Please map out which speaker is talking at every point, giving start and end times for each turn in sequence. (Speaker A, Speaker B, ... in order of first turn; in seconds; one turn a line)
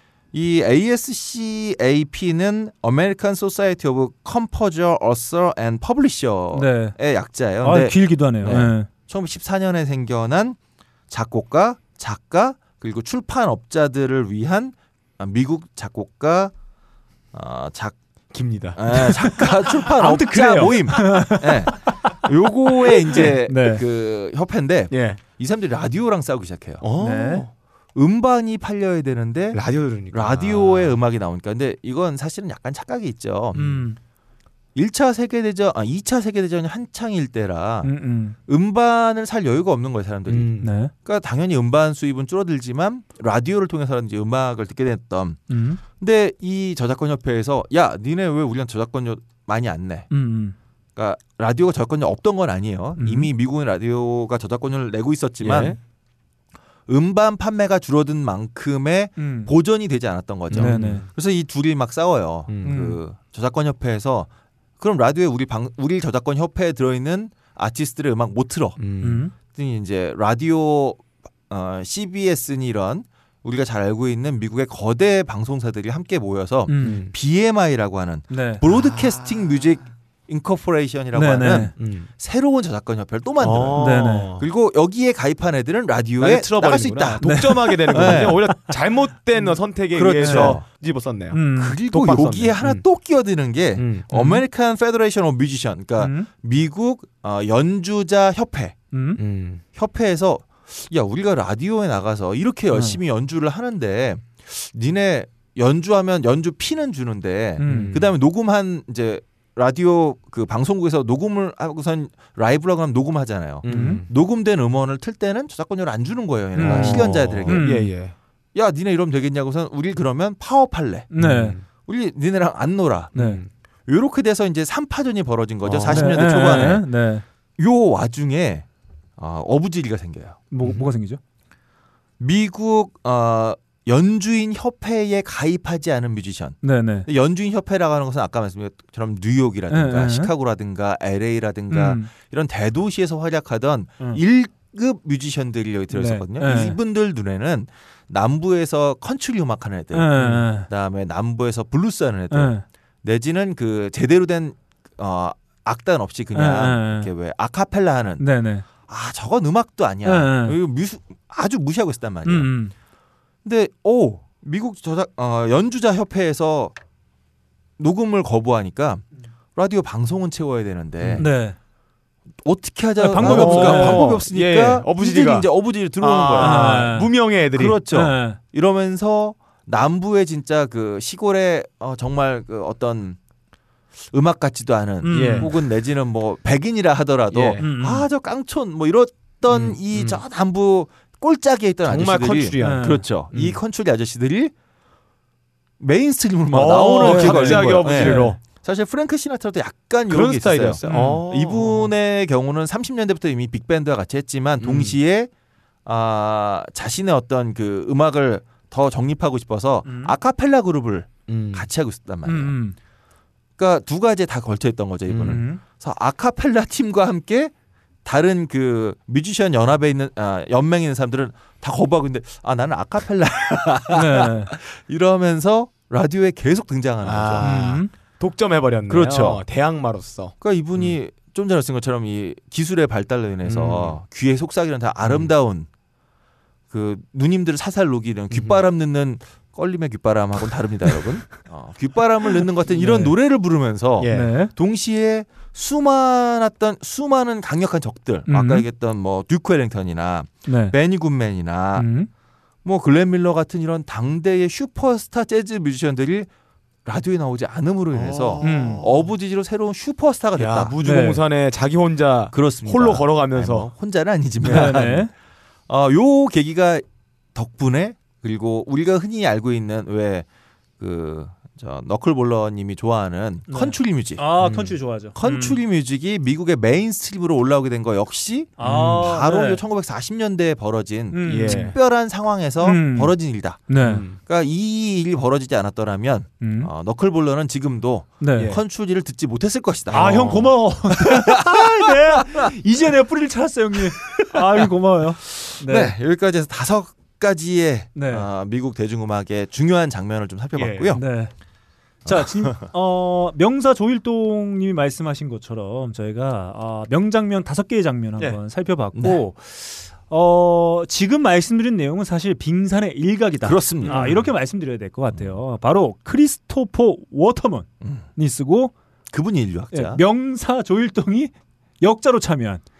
Speaker A: 0.3-10.6
Speaker B: 6.5-7.0
Speaker B: 7.6-8.9
Speaker C: 8.4-8.7
Speaker A: 11.1-16.5
Speaker A: 17.3-18.0
Speaker C: 18.3-19.2
Speaker A: 18.8-26.8
Speaker B: 19.2-22.2
Speaker B: 23.2-23.8
Speaker C: 24.9-25.2
Speaker C: 26.8-27.5
Speaker B: 27.0-27.5
Speaker A: 27.9-33.8
Speaker C: 29.5-31.0
Speaker B: 33.5-34.0
Speaker A: 34.8-37.9
Speaker B: 37.8-38.4
Speaker A: 38.5-50.1
Speaker C: 40.3-40.7
Speaker B: 40.6-40.9
Speaker B: 45.5-45.8
Speaker B: 50.1-50.6
Speaker A: 51.0-55.8
Speaker B: 53.0-53.3
Speaker C: 55.4-55.8
Speaker A: 56.9-68.8
Speaker B: 59.2-59.5
Speaker C: 60.5-61.1
Speaker B: 60.6-61.1
Speaker C: 62.5-62.8
Speaker B: 62.6-63.0
Speaker C: 68.8-69.2
Speaker B: 69.0-69.3
Speaker A: 69.4-88.5
Speaker B: 76.7-77.0
Speaker C: 76.8-77.1
Speaker B: 78.3-78.6
Speaker C: 78.7-79.2
Speaker B: 81.1-81.7
Speaker C: 81.8-82.1
Speaker C: 83.4-84.5
Speaker B: 83.8-84.3
Speaker C: 86.2-92.8
Speaker B: 87.2-88.8
Speaker A: 89.9-90.7
Speaker B: 90.2-90.6
Speaker B: 91.3-91.8
Speaker A: 91.6-98.8
Speaker C: 93.8-94.1
Speaker B: 94.1-94.4
Speaker B: 96.0-96.3
Speaker B: 98.9-99.2
Speaker C: 99.2-99.6
Speaker A: 99.8-117.7
Speaker B: 102.7-103.0
Speaker B: 107.6-107.9
Speaker C: 107.6-108.1
Speaker C: 113.6-114.1
Speaker B: 113.7-114.0
Speaker B: 116.5-118.0
Speaker C: 116.6-118.2
Speaker A: 118.5-121.1
Speaker B: 121.1-121.6
Speaker C: 121.2-121.7
Speaker A: 121.9-123.1
Speaker C: 123.1-123.5
Speaker B: 123.2-123.4
Speaker A: 123.9-126.9
Speaker C: 125.6-126.7
Speaker B: 125.9-127.2
Speaker A: 127.6-130.4
Speaker B: 130.5-131.2
Speaker C: 130.6-130.9
Speaker A: 132.2-158.3
Speaker B: 136.6-137.1
Speaker B: 139.7-140.3
Speaker B: 141.7-142.1
Speaker B: 145.9-146.8
Speaker B: 149.9-150.7
Speaker B: 152.3-152.6
Speaker B: 156.3-157.1
Speaker B: 158.2-158.7
Speaker A: 158.8-162.5
Speaker B: 160.0-160.6
Speaker B: 162.3-162.7
Speaker A: 163.4-166.8
Speaker A: 167.8-169.0
Speaker A: 169.6-171.3
Speaker C: 171.0-171.3
Speaker B: 171.2-171.6
Speaker A: 172.4-176.9
Speaker B: 173.0-174.1
Speaker C: 173.2-177.8
Speaker B: 176.4-177.1
Speaker A: 177.5-183.2
Speaker B: 177.9-178.4
Speaker A: 184.1-194.5
Speaker B: 185.0-185.5
Speaker C: 185.1-185.5
Speaker C: 187.3-187.7
Speaker B: 187.6-188.1
Speaker C: 189.5-190.2
Speaker C: 191.9-193.6
Speaker B: 192.6-193.0
Speaker A: 195.8-205.3
Speaker C: 196.5-198.4
Speaker B: 197.0-198.3
Speaker C: 200.1-201.9
Speaker B: 200.8-201.2
Speaker C: 204.6-205.0
Speaker A: 205.8-212.6
Speaker B: 209.8-210.2
Speaker C: 211.3-211.7
Speaker B: 212.3-212.8
Speaker A: 213.6-217.5
Speaker C: 215.1-215.4
Speaker B: 215.2-215.6
Speaker A: 218.1-227.6
Speaker B: 223.9-224.5
Speaker C: 227.0-231.0
Speaker B: 227.4-227.9
Speaker A: 228.9-229.4
Speaker A: 230.4-235.7
Speaker C: 233.4-234.0
Speaker C: 235.1-235.3
Speaker A: 236.7-251.9
Speaker C: 238.3-238.6
Speaker C: 244.0-244.3
Speaker B: 244.1-244.5
Speaker B: 248.3-248.7
Speaker B: 250.5-250.8
Speaker B: 251.8-252.1
Speaker A: 252.7-256.3
Speaker A: 256.9-260.7
Speaker C: 257.9-259.0
Speaker B: 258.4-258.8
Speaker C: 260.4-263.7
Speaker B: 260.8-261.2
Speaker A: 262.3-265.1
Speaker C: 264.4-265.0
Speaker B: 264.5-265.1
Speaker A: 265.7-270.3
Speaker A: 270.8-274.2
Speaker B: 273.5-275.6
Speaker C: 274.4-274.8
Speaker A: 275.1-291.3
Speaker B: 278.6-279.6
Speaker C: 278.6-279.0
Speaker B: 281.1-281.8
Speaker C: 281.3-281.8
Speaker B: 282.6-283.1
Speaker B: 283.7-284.0
Speaker C: 283.8-284.2
Speaker B: 286.4-286.7
Speaker B: 288.2-288.5
Speaker C: 289.9-290.6
Speaker B: 289.9-295.9
Speaker A: 295.4-301.0
Speaker B: 297.9-298.3
Speaker C: 300.6-301.0
Speaker B: 300.9-301.3
Speaker A: 302.1-302.7
Speaker B: 302.1-318.7
Speaker A: 313.4-314.3
Speaker C: 313.8-314.2
Speaker A: 317.8-318.1
Speaker A: 319.1-320.0
Speaker B: 319.7-322.6